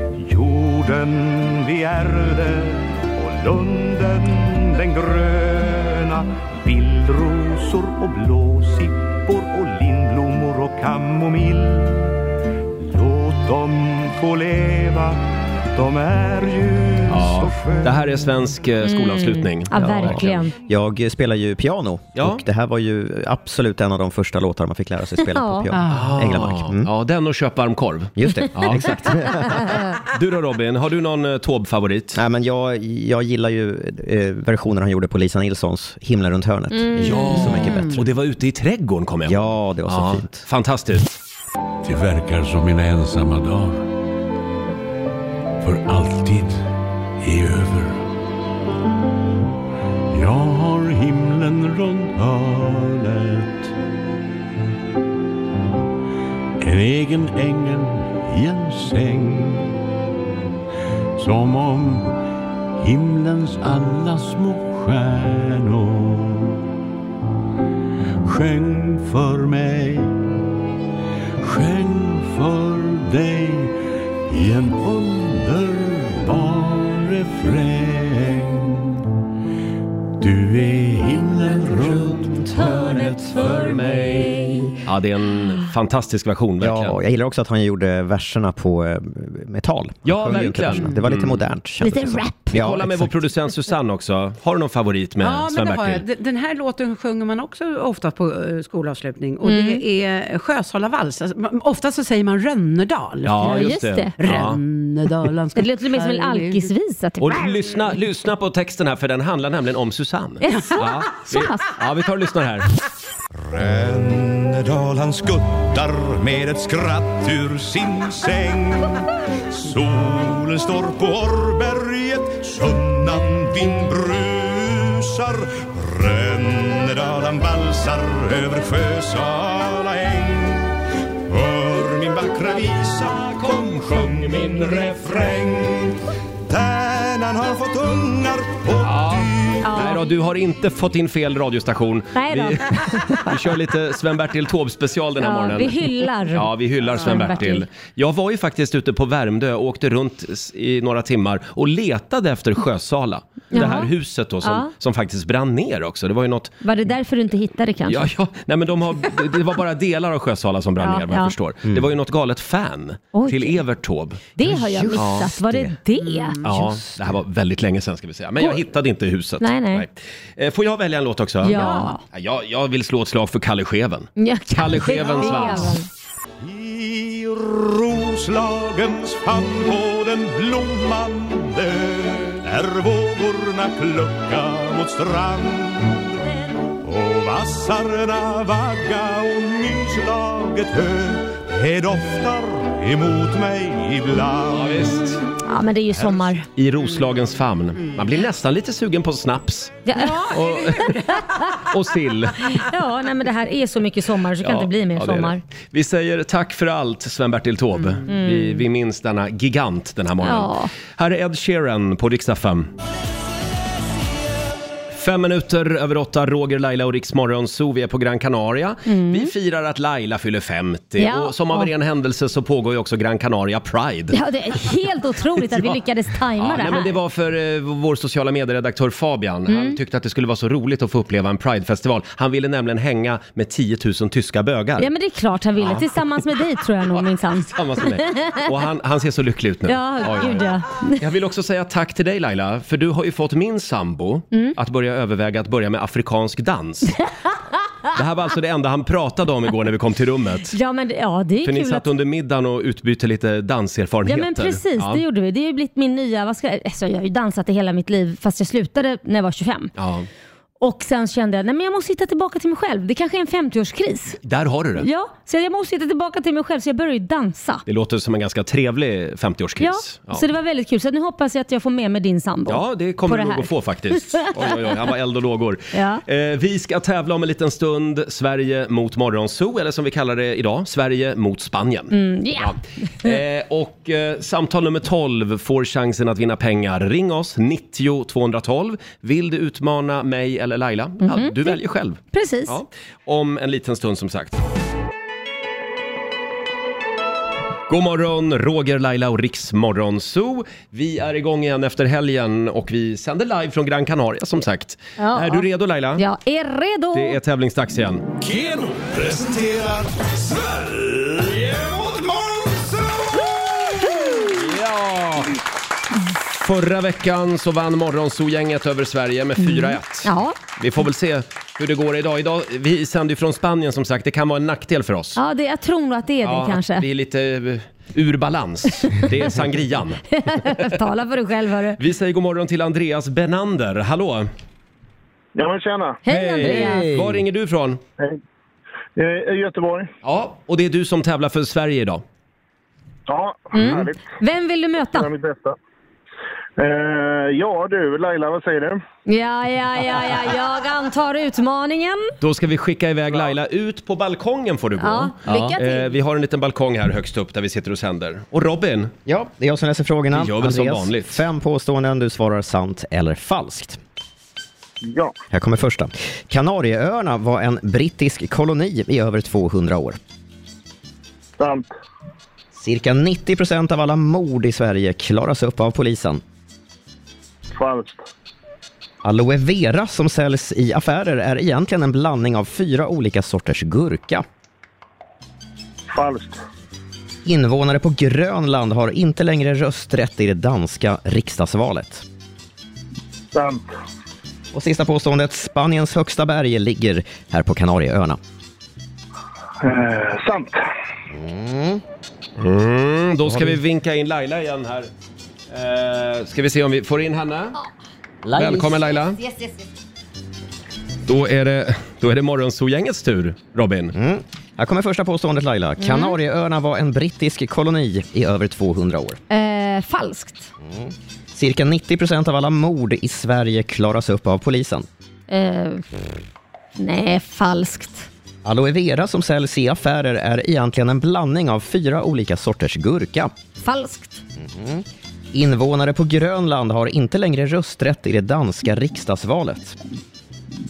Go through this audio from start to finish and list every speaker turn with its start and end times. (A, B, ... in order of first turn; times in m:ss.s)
0:00.2-0:12.1 A
0:12.8-0:15.2 A
0:15.7-0:18.3 A
0:17.1-0:20.5 B
0:18.8-0:20.6 C
0:19.7-0:26.9 D
0:22.2-0:22.4 B
0:25.2-0:25.7 C
0:25.7-0:26.1 E
0:25.9-0:32.2 B
0:28.2-0:29.7 D
0:32.1-0:38.0 D
0:36.7-0:37.8 C
0:37.0-0:41.1 B
0:39.2-0:40.4 D
0:41.8-0:43.8 F
0:45.6-0:46.6 F
0:47.2-0:48.0 F
0:50.1-0:51.3 F
0:50.8-0:53.5 A
0:56.7-0:58.8 F
0:58.4-0:59.6 A
1:01.3-1:02.1 F
1:02.8-1:06.3 F
1:08.3-1:10.0 A
1:09.6-1:09.9 F
1:11.4-1:13.7 F
1:14.3-1:16.0 F
1:14.8-1:18.4 A
1:16.8-1:18.7 F
1:20.2-1:23.5 F
1:21.9-1:27.0 B
1:22.6-1:24.7 C
1:26.6-1:33.1 D
1:30.0-1:31.4 B
1:31.8-1:32.6 C
1:32.5-1:36.0 B
1:35.2-1:46.7 E
1:39.4-1:39.8 C
1:43.2-1:44.6 B
1:43.4-1:44.4 C
1:45.6-1:47.7 C
1:47.2-1:52.7 B
1:50.4-1:51.7 C
1:53.5-2:10.7 A
2:11.3-2:19.8 A
2:18.8-2:36.5 B
2:19.6-2:20.1 C
2:22.1-2:23.3 C
2:25.2-2:27.7 C
2:33.5-2:33.9 C
2:34.4-2:34.7 C
2:36.6-2:38.1 C
2:37.9-2:44.2 B
2:40.8-2:41.3 C
2:43.1-2:43.6 C
2:44.4-2:46.4 C
2:44.4-2:45.7 D
2:44.9-2:45.3 B
2:46.4-2:55.8 B
2:46.4-2:46.7 D
2:49.4-2:49.8 C
2:51.4-2:52.0 C
2:54.2-2:55.9 C
2:56.4-3:06.1 A
3:06.8-3:15.1 A
3:14.5-3:15.2 B
3:15.4-3:16.4 C
3:16.0-3:16.4 A
3:16.5-3:21.0 B
3:19.9-3:20.3 C
3:20.0-3:21.0 E
3:21.1-3:21.5 C
3:21.6-3:22.6 B
3:22.4-3:25.4 C
3:24.4-3:32.7 B
3:28.1-3:28.6 C
3:30.2-3:30.7 C
3:34.9-3:44.2 B
3:38.9-3:39.3 C
3:41.0-3:41.7 C
3:44.1-3:46.9 C
3:45.5-3:45.8 B
3:46.4-3:54.9 B
3:49.5-3:49.8 C
3:54.8-3:58.5 C
3:55.6-3:56.0 B
3:56.9-4:07.0 B
3:59.7-4:01.0 C
4:07.9-4:10.6 B
4:10.5-4:11.9 C
4:11.4-4:15.0 B
4:14.1-4:19.7 C
4:19.8-4:20.1 B
4:20.6-4:24.2 C
4:24.2-4:24.9 B
4:24.8-4:27.6 C
4:27.6-4:30.2 B
4:29.6-4:34.5 C
4:32.5-4:54.3 B
4:35.7-4:36.0 C
4:41.9-4:43.1 C
4:51.0-4:51.6 C
4:52.1-4:52.6 C
4:57.7-5:06.0 B
5:05.0-5:07.2 C
5:06.9-5:08.1 B
5:08.2-5:13.2 A
5:13.8-5:14.2 A
5:13.8-5:14.4 C
5:14.3-5:15.4 B
5:16.4-5:25.2 B
5:19.4-5:20.4 C
5:25.2-5:26.8 C
5:26.2-5:30.7 B
5:30.1-5:31.8 C
5:31.8-5:34.3 B
5:35.3-5:36.0 G
5:36.0-5:36.9 C
5:36.1-5:37.8 B
5:36.4-5:37.2 D
5:39.0-5:39.9 G
5:40.0-5:42.0 B
5:43.1-5:44.0 G
5:43.5-5:45.1 C
5:44.9-5:45.6 G
5:46.6-5:48.8 G
5:49.1-5:52.1 C
5:52.2-5:58.9 B
5:54.8-5:55.9 C
5:59.0-6:03.8 D
6:00.1-6:01.2 B
6:04.8-6:05.1 G
6:05.3-6:10.0 D
6:11.4-6:11.7 G
6:12.5-6:16.2 D
6:17.6-6:18.0 G
6:19.0-6:24.2 D
6:25.9-6:26.4 G
6:27.2-6:32.0 D
6:33.3-6:33.6 G
6:34.5-6:38.2 D
6:39.6-6:40.6 G
6:41.1-6:41.8 D
6:42.4-6:44.9 B
6:43.3-6:43.6 D
6:45.5-6:47.6 B
6:48.2-6:48.9 D
6:48.3-6:49.2 B
6:51.1-6:54.0 B
6:53.9-6:59.2 D
6:55.8-6:56.2 C
6:59.3-7:00.5 C
7:00.6-7:04.9 D
7:05.3-7:05.9 C
7:06.8-7:08.1 C
7:08.4-7:13.3 D
7:13.6-7:14.2 C
7:14.4-7:19.8 D